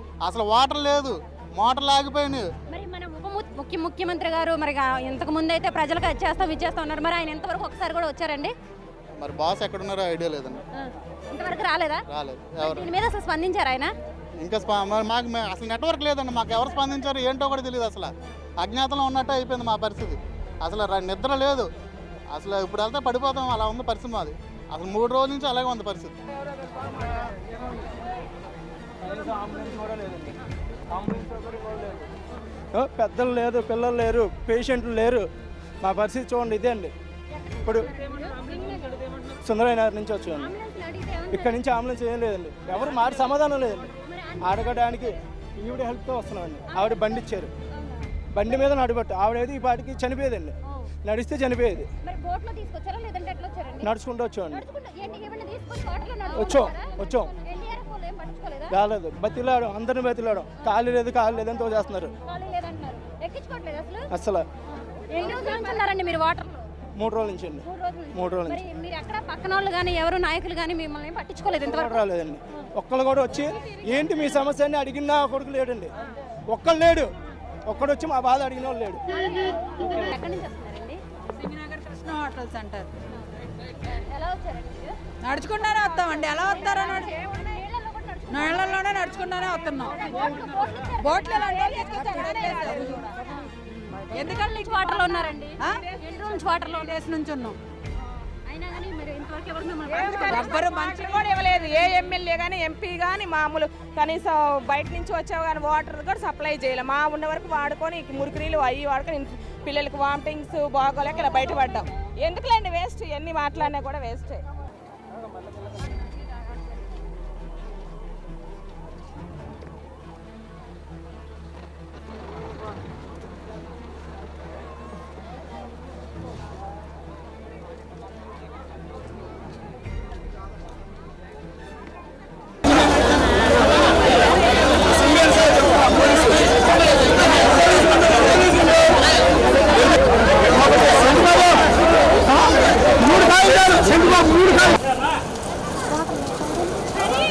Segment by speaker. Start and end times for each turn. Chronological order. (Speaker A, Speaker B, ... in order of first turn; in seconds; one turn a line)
Speaker A: 0.2-2.5
Speaker B: 2.7-8.5
Speaker A: 9.2-10.6
Speaker B: 11.3-12.0
Speaker A: 12.1-12.9
Speaker B: 12.6-13.9
Speaker A: 14.4-21.7
Speaker A: 22.3-26.1
Speaker C: 29.0-30.4
Speaker C: 30.9-32.1
Speaker C: 32.7-35.3
Speaker C: 35.8-36.9
Speaker B: 37.3-39.0
Speaker C: 37.6-37.9
Speaker C: 39.4-40.5
Speaker B: 40.3-41.6
Speaker C: 41.3-47.5
Speaker B: 43.0-45.2
Speaker B: 46.7-48.0
Speaker C: 48.3-51.9
Speaker B: 52.0-53.9
Speaker C: 53.8-54.6
Speaker B: 54.5-58.7
Speaker C: 56.3-57.3
Speaker C: 58.7-62.1
Speaker B: 62.2-64.1
Speaker C: 64.1-64.5
Speaker B: 65.1-66.7
Speaker C: 67.0-68.6
Speaker B: 67.6-72.0
Speaker C: 71.7-75.9
Speaker C: 76.5-77.1
Speaker C: 77.7-79.0
Speaker B: 79.1-81.0
Speaker D: 81.4-82.9
Speaker B: 83.8-85.0
Speaker D: 85.2-87.1
Speaker B: 85.5-89.0
Speaker D: 88.3-93.1
Speaker B: 89.7-93.1
Speaker E: 91.6-92.9
Speaker B: 93.7-97.0
Speaker D: 94.1-94.7
Speaker E: 94.6-95.3
Speaker D: 95.6-95.9
Speaker E: 96.1-96.4
Speaker D: 96.7-97.6
Speaker B: 98.5-102.1
Speaker E: 99.9-114.4
Speaker D: 100.3-101.7